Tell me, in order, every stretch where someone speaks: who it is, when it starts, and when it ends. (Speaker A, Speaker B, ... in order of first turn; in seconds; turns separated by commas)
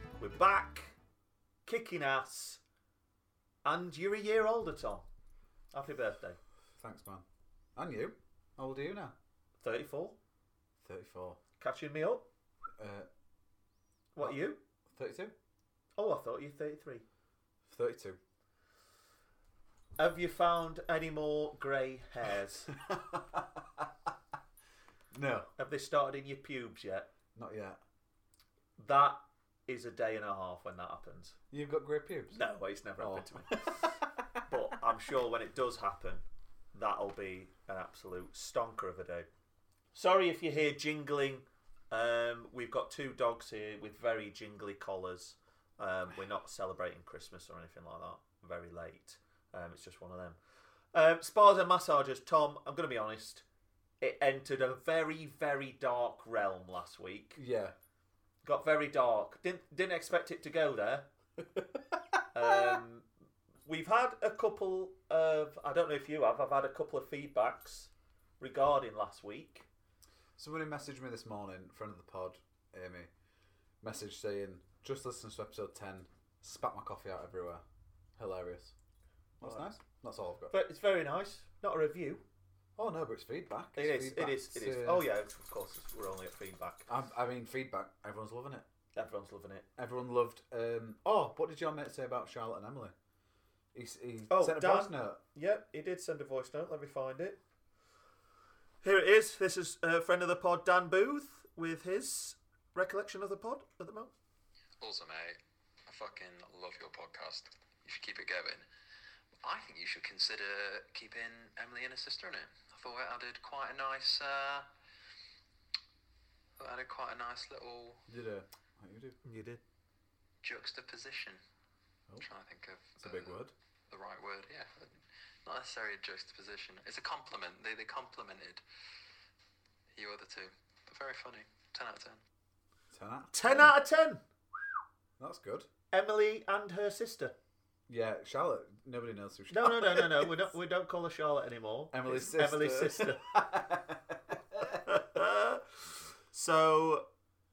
Speaker A: 0.2-1.0, Speaker A: 1.7-2.6, Speaker A: 3.6-5.1, Speaker A: 5.7-6.4, Speaker B: 6.8-7.2, Speaker B: 7.8-9.2, Speaker A: 9.6-10.2, Speaker B: 10.8-11.4, Speaker A: 11.6-12.3, Speaker B: 12.8-13.1, Speaker A: 14.1-14.6, Speaker B: 14.9-15.3, Speaker A: 16.0-17.1, Speaker B: 17.7-18.2, Speaker A: 20.0-22.7, Speaker B: 22.7-23.9, Speaker B: 25.1-25.5, Speaker A: 25.6-27.1, Speaker B: 27.4-27.8, Speaker A: 28.8-31.4, Speaker B: 31.5-32.4, Speaker A: 32.4-33.9, Speaker B: 33.0-34.6, Speaker A: 34.5-39.3, Speaker A: 39.9-50.4, Speaker A: 50.9-53.5, Speaker A: 54.0-57.4, Speaker B: 57.4-57.7, Speaker A: 58.4-61.1, Speaker B: 61.6-62.8, Speaker A: 62.3-63.1, Speaker A: 63.6-69.7, Speaker B: 70.4-73.1, Speaker B: 73.8-77.6, Speaker B: 78.2-78.7, Speaker B: 79.4-80.5, Speaker A: 80.5-82.2, Speaker B: 82.8-85.1, Speaker A: 83.8-86.9, Speaker B: 86.9-88.7, Speaker A: 89.0-89.7, Speaker B: 89.8-92.9, Speaker B: 93.7-95.2, Speaker A: 94.3-97.4, Speaker A: 98.8-104.1, Speaker C: 104.8-108.7, Speaker C: 109.4-114.7, Speaker C: 116.6-118.0, Speaker B: 118.1-119.2, Speaker A: 119.2-119.6, Speaker C: 120.4-121.4, Speaker C: 122.2-123.3, Speaker B: 123.0-123.5, Speaker C: 123.9-128.6, Speaker C: 129.9-132.2, Speaker B: 132.9-133.7, Speaker A: 133.3-134.2, Speaker B: 135.2-135.7, Speaker A: 135.9-137.3, Speaker B: 137.9-140.5, Speaker A: 139.5-143.3, Speaker B: 141.9-144.9, Speaker A: 144.8-145.7, Speaker A: 146.3-147.1